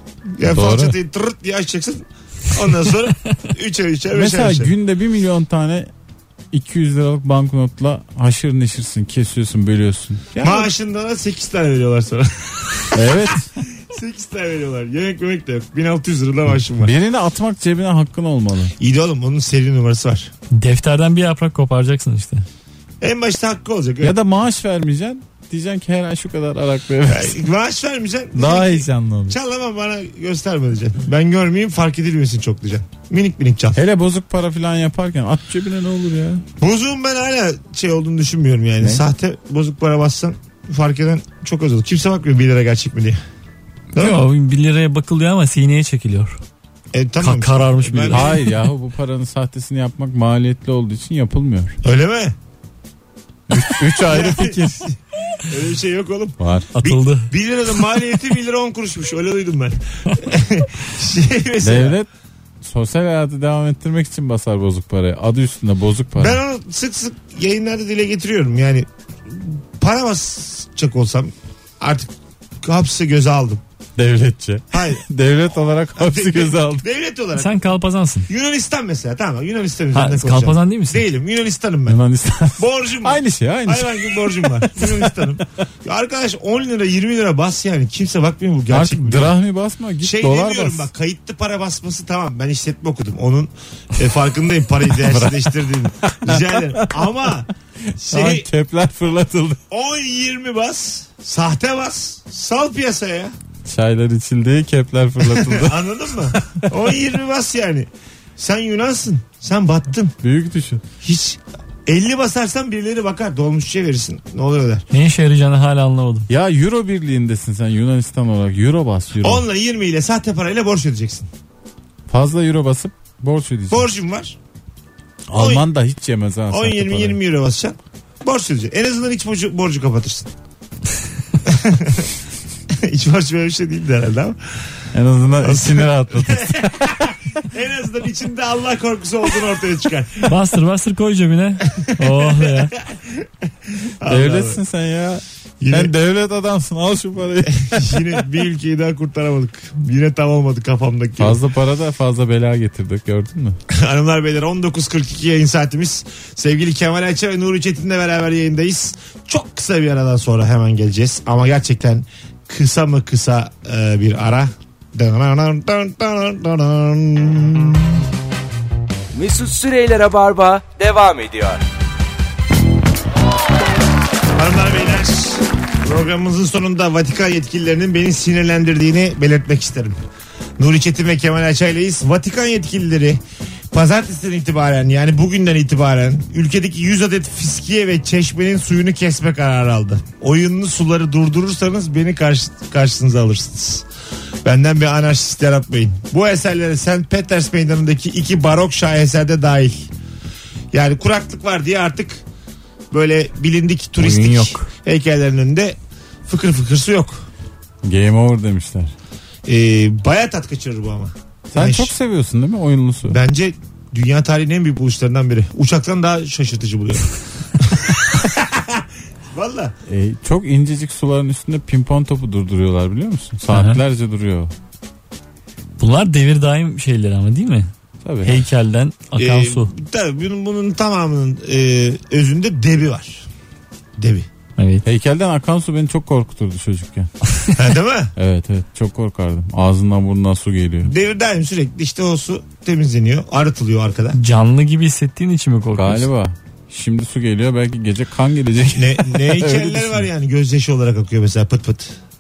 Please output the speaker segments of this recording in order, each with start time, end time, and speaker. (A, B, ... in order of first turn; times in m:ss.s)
0:00.3-0:04.7 A
0:00.5-0:01.0 B
0:04.1-0:05.9 B
0:06.5-0:10.7 B
0:10.4-0:16.9 A
0:12.9-0:13.5 B
0:16.5-0:18.7 B
0:18.8-0:20.3 A
0:20.5-0:22.4 C
0:23.0-0:24.1 A
0:24.0-0:27.4 B
0:27.1-0:33.8 A
0:28.3-0:29.4 B
0:33.7-0:36.4 B
0:36.6-0:43.2 A
0:43.9-0:46.4 C
0:46.9-0:48.4 A
0:47.2-0:48.4 C
0:48.1-0:51.8 B
0:51.8-0:52.3 A
0:53.5-0:54.9 B
0:53.8-1:02.0 A
0:56.4-0:56.7 B
0:56.7-0:57.3 C
1:01.6-1:02.1 B
1:02.6-1:06.4 B
1:06.2-1:12.1 A
1:12.6-1:13.6 A
1:14.0-1:16.8 B
1:14.7-1:15.0 A
1:16.0-1:17.6 A
1:17.4-1:18.3 C
1:18.3-1:22.0 A
1:19.9-1:21.0 C
1:21.9-1:25.2 B
1:22.6-1:29.3 A
1:28.7-1:30.9 B
1:30.0-1:38.5 A
1:34.9-1:37.1 B
1:38.1-1:39.6 B
1:39.7-1:43.3 A
1:43.6-1:46.7 B
1:45.3-1:50.1 A
1:50.2-1:50.8 B
1:51.0-1:54.8 A
1:54.9-1:56.3 C
1:56.3-1:59.4 B
1:59.2-2:01.3 A
2:02.1-2:03.9 B
2:03.7-2:04.4 A
2:05.3-2:07.2 B
2:05.3-2:05.6 A
2:06.5-2:10.3 A
2:11.4-2:12.1 A
2:12.7-2:14.4 A
2:14.9-2:17.1 B
2:15.4-2:20.3 A
2:20.2-2:22.7 C
2:21.7-2:24.6 A
2:24.0-2:28.2 B
2:25.6-2:25.9 A
2:27.6-2:31.4 A
2:31.2-2:33.6 B
2:33.7-2:48.0 A
2:49.1-2:51.6 D
2:54.4-3:00.0 A
3:00.6-3:03.2 A
3:03.7-3:13.8 A
3:14.4-3:19.9 A
3:20.7-3:22.2 A
3:22.9-3:25.8 A
3:24.0-3:24.7 C
3:26.3-3:27.3 A
3:27.8-3:28.9 B
3:29.4-3:31.9 A
3:31.5-3:33.2 B
3:33.1-3:39.7 A
3:39.9-3:44.5 B
3:43.5-3:43.8 C
3:45.8-3:47.7 C
3:48.0-3:48.4 B
3:48.2-3:49.7 C
3:49.2-3:53.3 A
3:54.0-3:54.3 A
3:54.6-3:54.8 C
3:54.8-3:57.1 B
3:57.5-3:58.1 A
3:58.2-4:00.9 B
4:00.8-4:04.2 A
4:04.1-4:06.1 C
4:05.7-4:10.1 B
4:08.7-4:11.9 A